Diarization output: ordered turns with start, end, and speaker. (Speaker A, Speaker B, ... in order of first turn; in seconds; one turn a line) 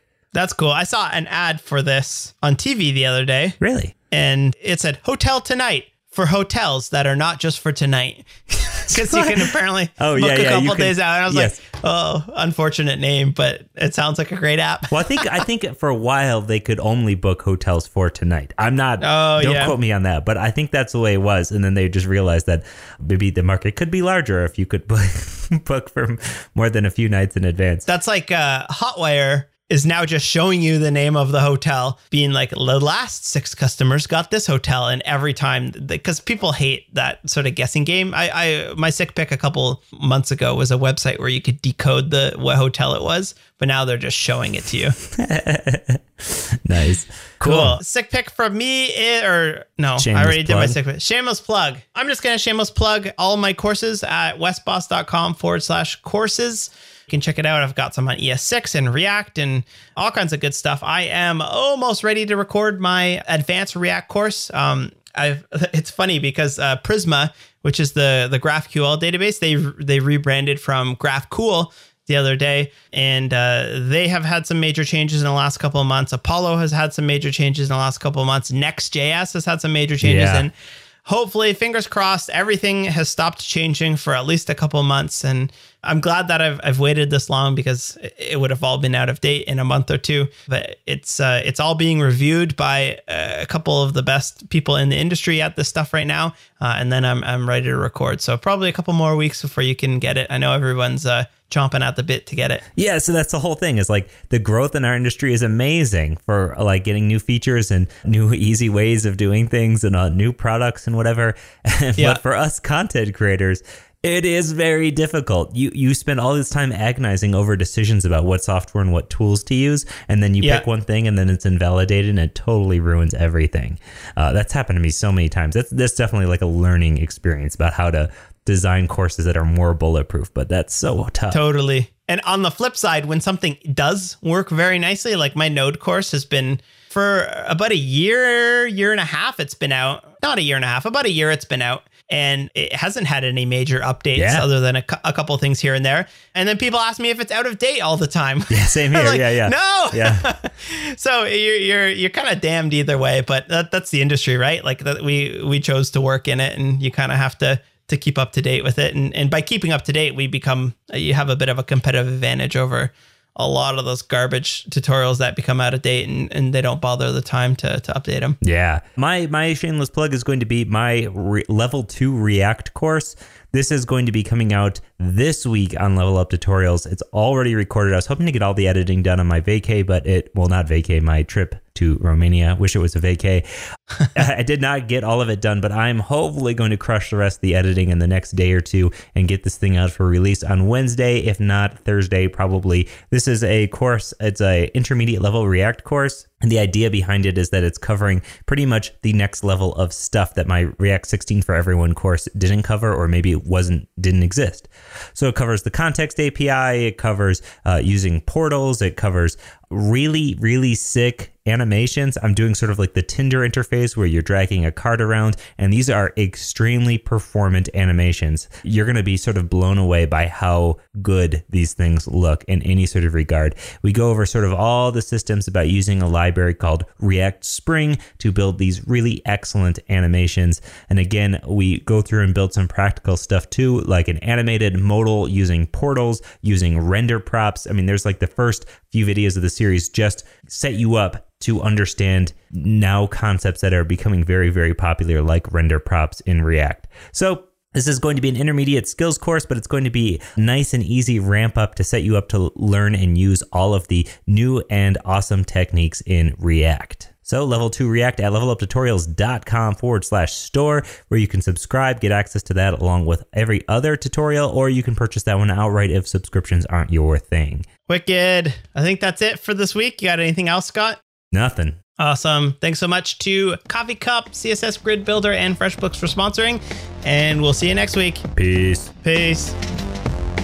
Speaker A: 0.3-3.6
Speaker B: 3.6-3.9
Speaker A: 4.1-15.3
Speaker B: 8.9-11.6
Speaker B: 14.9-27.9
Speaker A: 19.0-19.7
Speaker A: 27.9-45.0
Speaker B: 45.1-47.8
Speaker A: 47.4-80.5
Speaker B: 50.0-50.8
Speaker B: 80.0-80.5
Speaker A: 81.0-102.6
Speaker B: 102.7-131.4
Speaker A: 131.3-168.4
Speaker B: 144.2-144.5
Speaker B: 148.5-150.3
Speaker B: 168.4-183.4
Speaker B: 184.1-267.7
Speaker A: 267.9-271.0
Speaker B: 271.3-271.8
Speaker A: 272.0-278.2
Speaker B: 278.4-278.9
Speaker A: 279.0-279.6